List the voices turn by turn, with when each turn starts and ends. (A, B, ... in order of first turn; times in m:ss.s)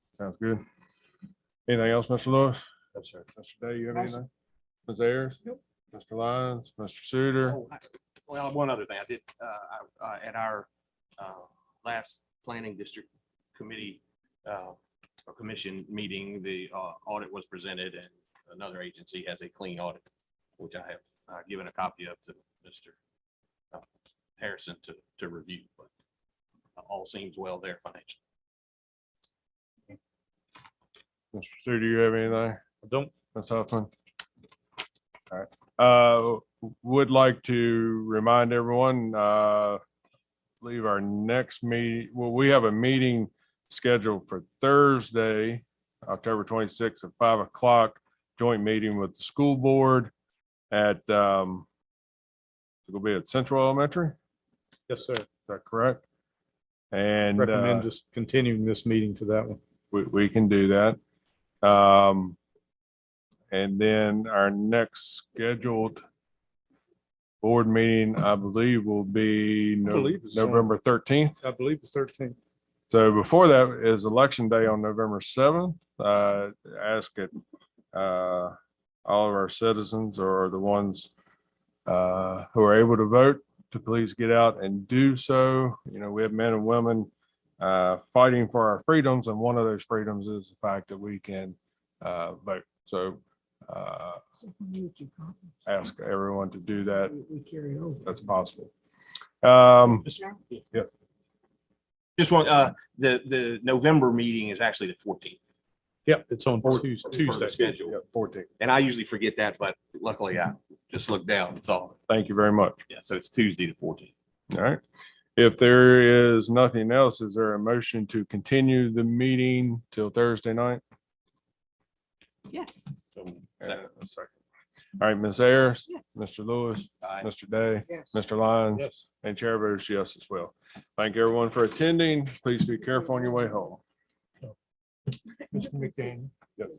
0:00.2-0:00.6 A
0:01.7-0:02.6 A
0:03.0-0:03.2 B
0:03.3-0:04.3 A
0:04.9-0:05.4 A
0:05.9-0:07.6 A
0:07.5-0:20.0 B
0:20.6-0:23.0 B
0:24.4-0:25.9 B
0:26.8-0:28.2 B
0:31.3-0:32.6 A
0:32.8-0:33.1 C
0:33.3-0:33.9 A
0:35.3-0:39.8 A
0:40.6-0:50.1 A
0:50.7-0:51.7 A
0:52.9-0:54.2 A
0:54.9-0:55.3 C
0:55.5-0:56.0 A
0:56.9-0:57.9 A
0:57.4-0:59.6 C
0:59.9-1:01.0 A
1:01.6-1:02.4 A
1:03.5-1:06.0 A
1:07.4-1:11.4 A
1:09.8-1:10.7 C
1:11.4-1:12.4 C
1:12.9-1:17.3 A
1:17.9-1:21.1 A
1:21.9-1:34.2 A
1:34.5-1:35.5 D
1:35.7-1:37.2 A
1:37.2-1:38.1 D
1:38.0-1:38.7 A
1:39.4-1:40.1 A
1:40.0-1:40.6 B
1:42.2-1:45.4 B
1:46.1-1:47.6 C
1:46.6-1:48.0 B
1:47.5-1:48.5 A
1:48.6-1:52.0 B
1:52.1-1:52.8 A
1:52.9-1:54.1 B
1:54.5-1:54.8 A
1:55.4-2:00.8 A
2:02.5-2:03.0 D
2:03.2-2:03.8 B
2:03.6-2:04.3 A
2:05.0-2:13.8 A
2:05.9-2:06.2 D
2:07.0-2:07.3 B
2:08.8-2:09.0 C
2:15.4-2:16.2 D